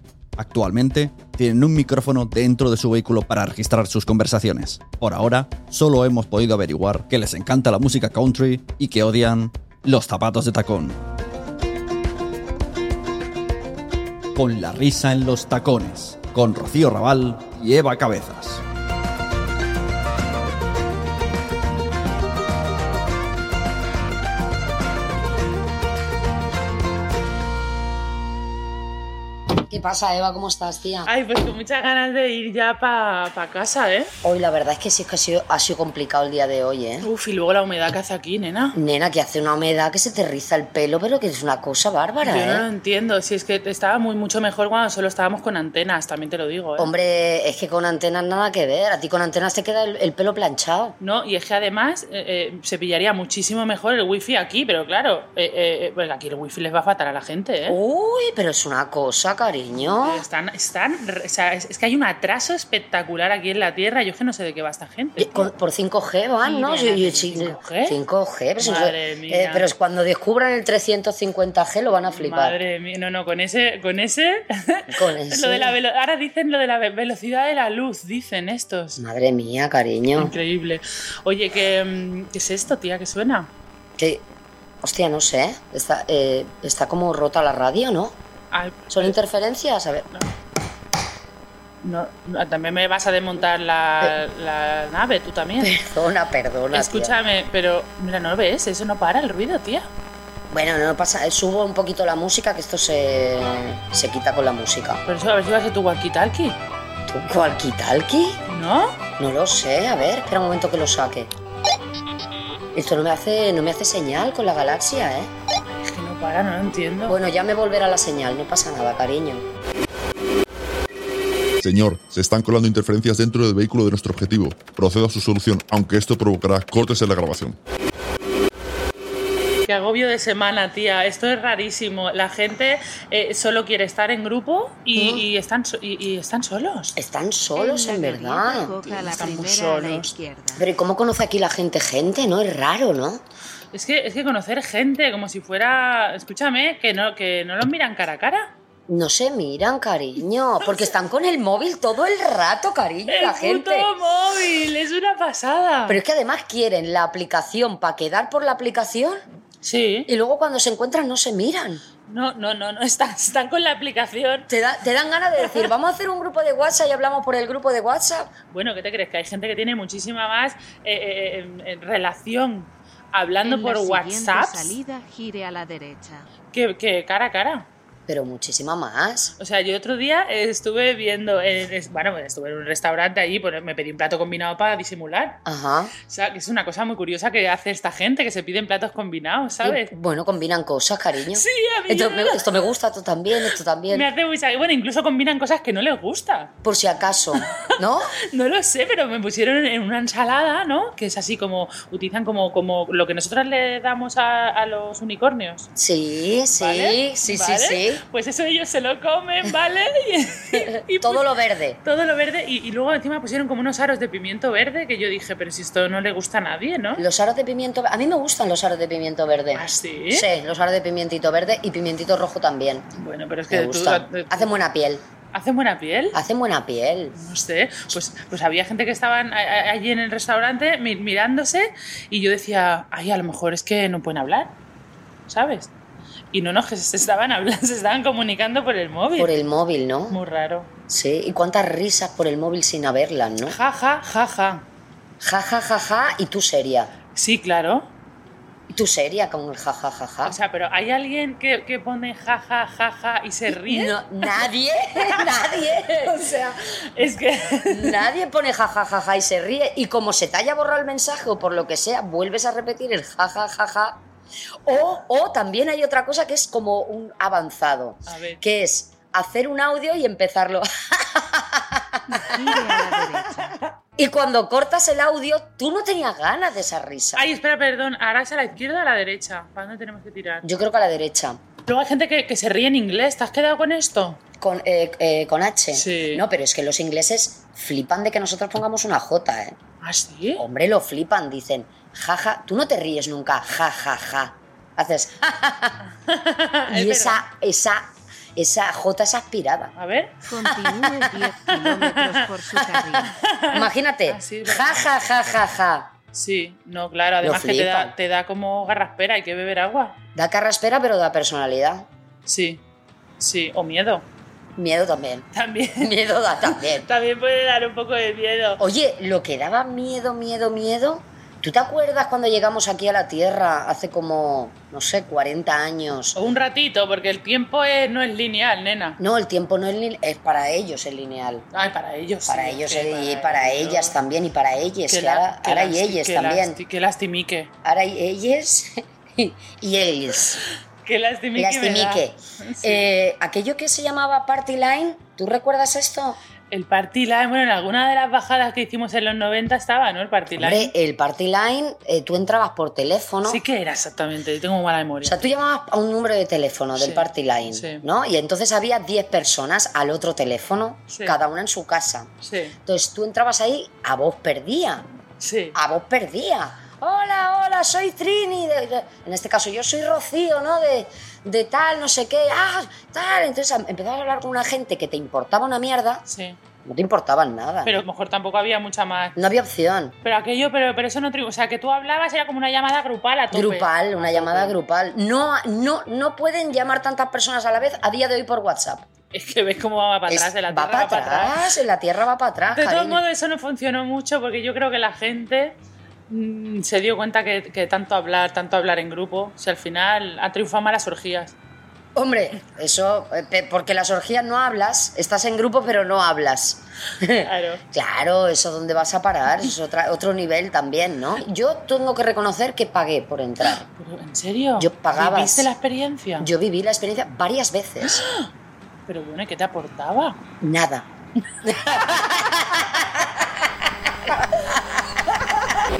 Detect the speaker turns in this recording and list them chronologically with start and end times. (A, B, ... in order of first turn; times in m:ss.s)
0:00.4-0:11.0 A
0:14.3-0:18.6 A
0:29.7-0:31.1 B
0:31.0-0:34.1 C
0:34.2-0:37.1 B
0:37.0-0:38.8 C
0:38.7-0:42.6 B
0:42.2-0:46.9 C
0:46.8-0:51.0 B
0:51.0-0:57.8 C
0:57.7-1:00.2 B
0:59.9-1:05.5 C
1:05.2-1:12.6 B
1:06.4-1:08.0 C
1:08.6-1:09.7 C
1:11.9-1:19.0 C
1:14.9-1:15.8 B
1:19.0-1:20.3 B
1:20.2-1:23.5 C
1:24.0-1:24.2 B
1:24.8-1:28.2 B
1:28.5-1:29.2 C
1:28.9-1:30.0 B
1:31.8-1:35.7 C
1:35.6-1:37.1 B
1:36.7-1:39.9 C
1:40.5-1:45.0 B
1:45.0-1:46.6 C
1:47.1-1:48.4 B
1:48.5-1:49.0 C
1:49.2-1:51.3 B
1:52.7-1:55.3 B
1:55.8-1:57.2 C
1:57.0-1:59.4 B
2:01.6-2:07.6 D
2:09.6-2:16.9 C
2:15.0-2:15.2 B
2:17.0-2:18.8 B
2:17.5-2:20.6 E
2:18.8-2:20.1 C
2:20.5-2:23.2 B
2:23.7-2:28.5 C
2:28.9-2:33.9 B
2:30.6-2:30.9 C
2:33.1-2:36.0 C
2:35.9-2:39.2 B
2:39.6-2:40.1 C
2:40.1-2:41.8 B
2:42.1-2:44.5 C
2:44.5-2:48.3 B
2:48.5-2:54.8 C
2:53.4-2:56.3 E
2:56.5-2:57.7 C
2:58.1-2:59.3 B
2:59.4-3:05.4 C
3:05.4-3:05.9 B
3:06.0-3:09.9 C
3:09.6-3:14.1 B
3:11.3-3:12.7 C
3:13.9-3:16.5 C
3:16.6-3:18.1 B
3:17.3-3:17.7 C
3:18.3-3:25.7 C
3:25.8-3:28.0 B
3:26.6-3:31.3 C
3:30.5-3:31.8 B
3:31.8-3:37.0 C
3:37.0-3:42.8 B
3:39.5-3:40.3 C
3:43.0-3:44.5 C
3:43.5-3:45.0 B
3:45.3-3:46.2 C
3:46.1-3:47.1 B
3:47.1-3:54.5 C
3:55.3-3:55.7 C
3:56.3-3:59.3 C
3:59.2-4:00.2 B
4:00.1-4:00.7 C
4:00.9-4:03.6 B
4:03.4-4:04.6 C
4:05.2-4:06.9 B
4:07.1-4:07.9 C
4:08.7-4:10.4 B
4:10.2-4:14.5 C
4:13.5-4:16.2 B
4:15.1-4:18.1 C
4:17.7-4:24.0 B
4:24.6-4:32.8 B
4:28.0-4:28.4 C
4:32.1-4:33.6 E
4:34.0-4:37.2 B
4:37.1-4:40.5 C
4:40.4-4:41.4 B
4:41.6-4:44.2 C
4:44.4-4:49.6 B
4:45.7-4:46.2 C
4:49.8-4:50.4 C
4:50.4-4:55.8 B
4:56.0-4:57.2 C
4:56.7-4:57.8 B
4:58.3-4:59.7 B
4:59.8-5:00.6 C
5:00.2-5:03.1 E
5:01.4-5:02.4 C
5:03.0-5:05.2 C
5:03.5-5:05.9 B
5:06.1-5:10.0 C
5:07.2-5:07.9 B
5:10.1-5:11.8 B
5:12.2-5:12.6 C
5:13.2-5:14.0 C
5:14.6-5:15.2 B
5:15.3-5:18.6 C
5:15.8-5:16.9 B
5:18.6-5:26.2 B
5:26.1-5:29.0 C
5:29.0-5:31.4 B
5:31.5-5:34.0 C
5:32.3-5:36.6 B
5:34.9-5:37.5 C
5:37.6-5:40.4 B
5:40.8-5:42.9 C
5:41.4-5:46.2 B
5:46.5-5:50.7 C
5:50.3-5:53.4 B
5:53.2-5:55.3 C
5:55.0-6:02.1 B
5:56.7-5:57.8 C
6:00.9-6:01.2 C
6:02.2-6:02.6 C
6:02.6-6:04.8 B
6:05.2-6:05.6 C
6:05.5-6:16.0 B
6:16.1-6:16.4 C
6:16.6-6:17.8 B
6:17.6-6:19.2 C
6:19.2-6:19.9 B
6:20.0-6:24.6 C
6:23.3-6:28.8 B
6:29.1-6:31.4 C
6:30.1-6:33.0 B
6:32.5-6:41.3 C
6:41.9-6:53.6 B
6:47.2-6:47.6 C
6:53.4-6:56.3 C
6:54.6-6:55.5 B
6:56.2-6:58.0 B
6:57.8-6:58.3 C
6:58.9-7:00.2 C
7:00.4-7:00.8 B
7:01.4-7:03.3 B
7:04.2-7:04.6 B